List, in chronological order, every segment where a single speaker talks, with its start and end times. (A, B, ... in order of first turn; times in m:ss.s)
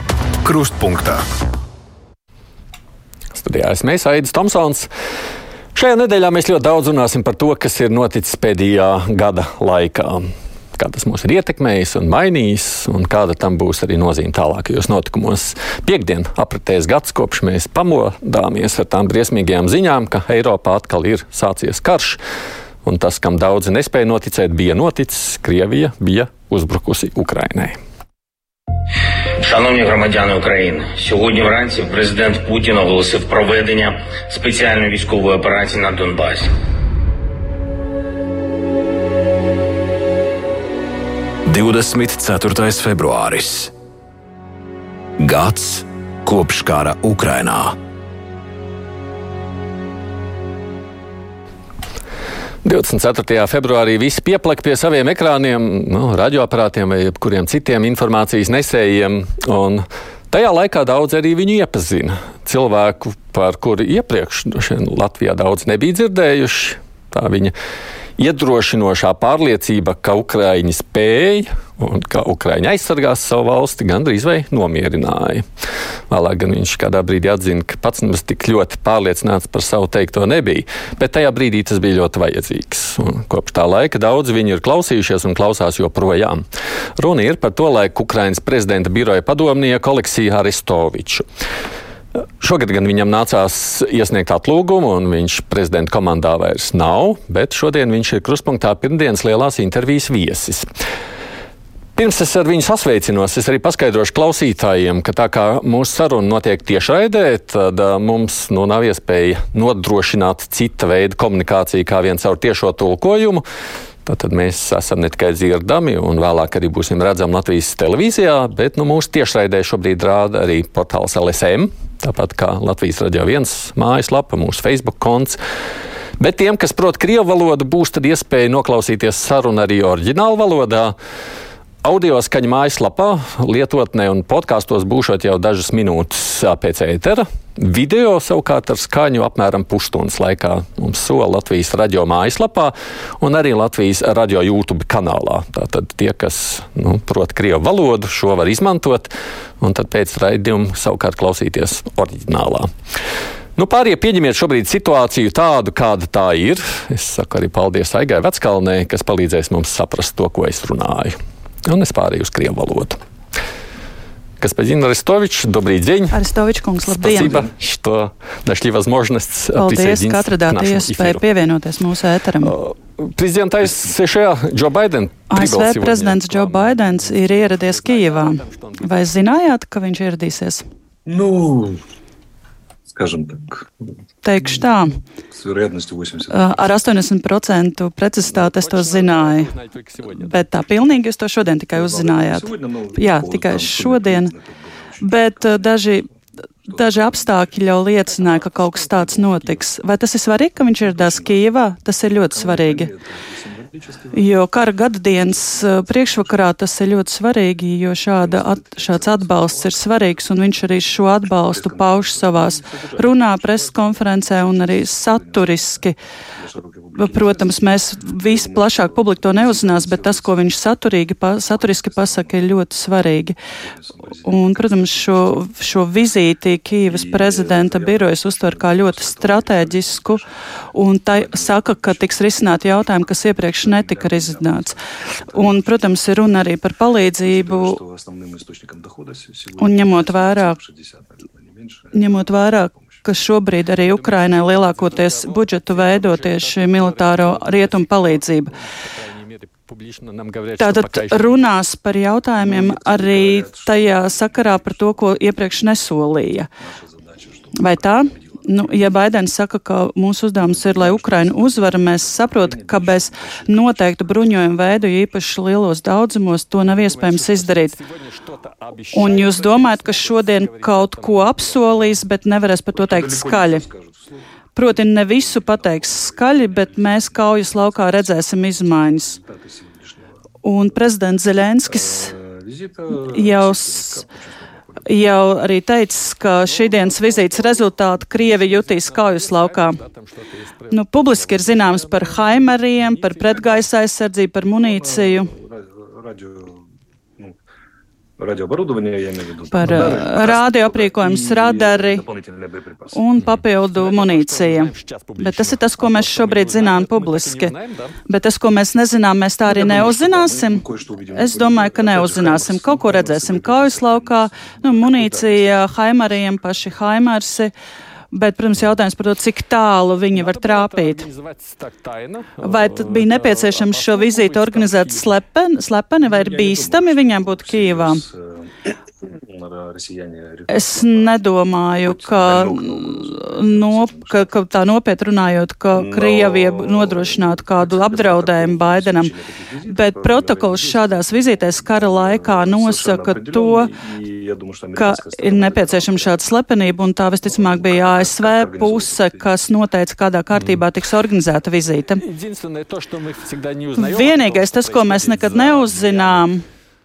0:00.4-0:01.2 A
0:03.3-0:04.9 B
0:05.7-0:22.2 B
0:22.8-0:27.8 B
0:29.4-0:36.5 C
0:41.5-0:43.7 A
0:45.2-0:47.8 A
0:52.6-1:07.5 B
1:08.2-1:15.5 B
1:16.1-1:26.4 B
1:27.0-1:31.2 B
1:32.4-1:40.7 B
1:42.0-1:53.4 B
1:54.0-2:05.4 B
2:06.2-2:11.0 B
2:11.8-2:32.7 B
2:33.6-2:43.0 B
2:44.4-2:46.2 B
2:46.1-2:47.5 D
2:47.0-2:51.2 B
2:49.6-2:52.6 D
2:52.4-2:59.1 B
2:55.3-3:00.6 D
3:01.0-3:01.8 E
3:02.9-3:03.8 E
3:04.2-3:05.0 D
3:05.3-3:06.8 E
3:06.3-3:09.5 D
3:08.3-3:10.6 B
3:10.1-3:14.3 D
3:11.7-3:16.1 E
3:15.0-3:16.1 D
3:16.7-3:17.6 E
3:16.7-3:22.9 D
3:18.1-3:19.6 B
3:20.8-3:21.5 E
3:22.2-3:24.4 E
3:24.1-3:36.0 D
3:25.3-3:26.5 E
3:28.2-3:30.0 E
3:31.4-3:40.4 E
3:37.0-3:43.4 D
3:41.5-3:42.5 E
3:43.5-3:45.5 E
3:44.2-3:54.8 D
3:46.9-3:50.3 E
3:51.1-3:56.4 E
3:55.3-3:57.8 D
3:57.2-4:03.0 E
3:59.6-4:00.6 D
4:01.9-4:08.5 D
4:03.8-4:11.5 B
4:10.6-4:16.5 D
4:12.4-4:15.2 E
4:16.6-4:18.9 E
4:17.6-4:27.8 D
4:20.4-4:24.4 E
4:26.7-4:32.0 B
4:28.9-4:33.6 D
4:32.7-4:40.2 E
4:34.6-4:39.2 D
4:40.4-4:42.1 D
4:41.7-4:44.9 E
4:43.0-4:44.0 D
4:44.8-4:49.8 D
4:46.4-4:53.6 B
4:50.7-4:55.3 D
4:54.5-4:56.7 E
4:58.2-5:03.0 E
4:59.5-5:02.0 D
5:02.9-5:07.5 D
5:03.2-5:08.0 B
5:08.1-5:17.5 D
5:09.5-5:15.7 E
5:18.1-5:21.1 D
5:20.1-5:25.2 B
5:22.4-5:28.0 D
5:26.0-5:31.2 E
5:30.5-5:39.1 D
5:31.8-5:34.3 E
5:35.7-5:46.2 E
5:39.7-5:43.7 D
5:44.8-5:52.0 D
5:47.2-5:49.4 E
5:50.4-5:50.6 B
5:52.0-5:56.3 B
5:53.8-5:56.4 D